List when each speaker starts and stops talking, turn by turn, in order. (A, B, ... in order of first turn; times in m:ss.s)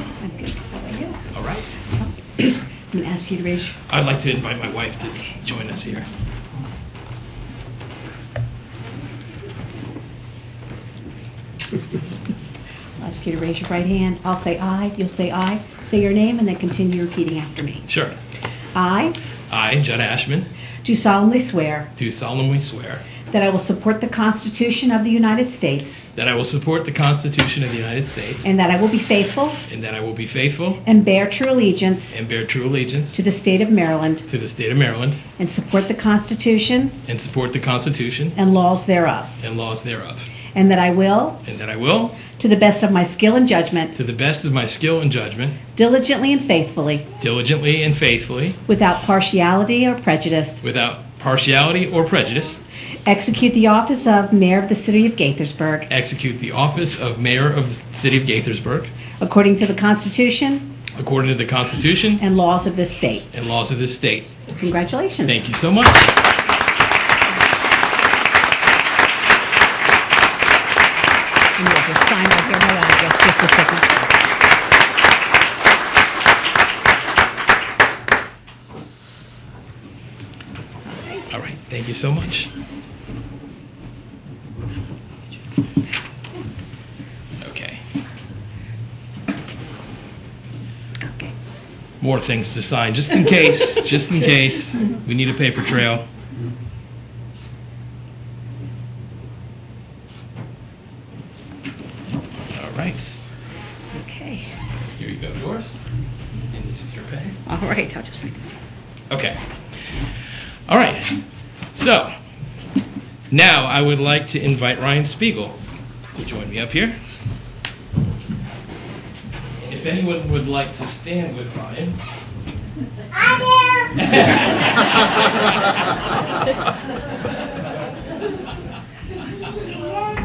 0:00.2-0:01.2 A
0:01.3-0:01.7 B
0:02.0-0:03.8 A
0:03.9-0:06.1 B
0:13.0-0:17.8 A
0:17.9-0:18.2 B
0:18.7-0:19.2 A
0:19.5-0:20.5 B
0:20.8-0:21.9 A
0:22.0-0:23.0 B
0:23.3-0:26.0 A
0:26.2-0:28.5 B
0:28.4-0:29.6 A
0:29.7-0:30.8 B
0:30.8-0:32.2 A
0:32.1-0:33.2 B
0:33.1-0:34.3 A
0:34.3-0:35.2 B
0:35.4-0:36.9 A
0:37.1-0:38.4 B
0:38.4-0:39.3 A
0:39.4-0:40.3 B
0:40.5-0:41.4 A
0:41.4-0:42.2 B
0:42.3-0:43.9 A
0:44.0-0:45.6 B
0:45.8-0:47.0 A
0:47.2-0:48.6 B
0:48.7-0:50.6 A
0:50.6-0:52.6 B
0:53.1-0:55.9 A
0:55.9-0:58.9 B
0:59.2-1:00.7 A
1:01.0-1:02.2 B
1:02.2-1:03.2 A
1:03.3-1:04.3 B
1:04.6-1:05.4 A
1:05.2-1:06.1 B
1:11.6-1:14.1 A
1:20.9-1:21.3 A
1:21.3-1:22.5 B
1:27.4-1:27.8 B
1:31.0-1:31.3 A
1:32.0-1:36.0 B
1:42.5-1:43.2 B
1:44.0-1:44.5 A
1:45.0-1:45.8 B
1:46.5-1:47.4 B
1:47.5-1:48.6 A
1:49.1-1:49.4 B
1:50.7-1:51.2 B
1:51.7-1:52.1 B
1:53.3-1:55.6 B
1:56.1-1:57.0 B
1:59.6-2:02.0 B
2:04.0-2:04.9 B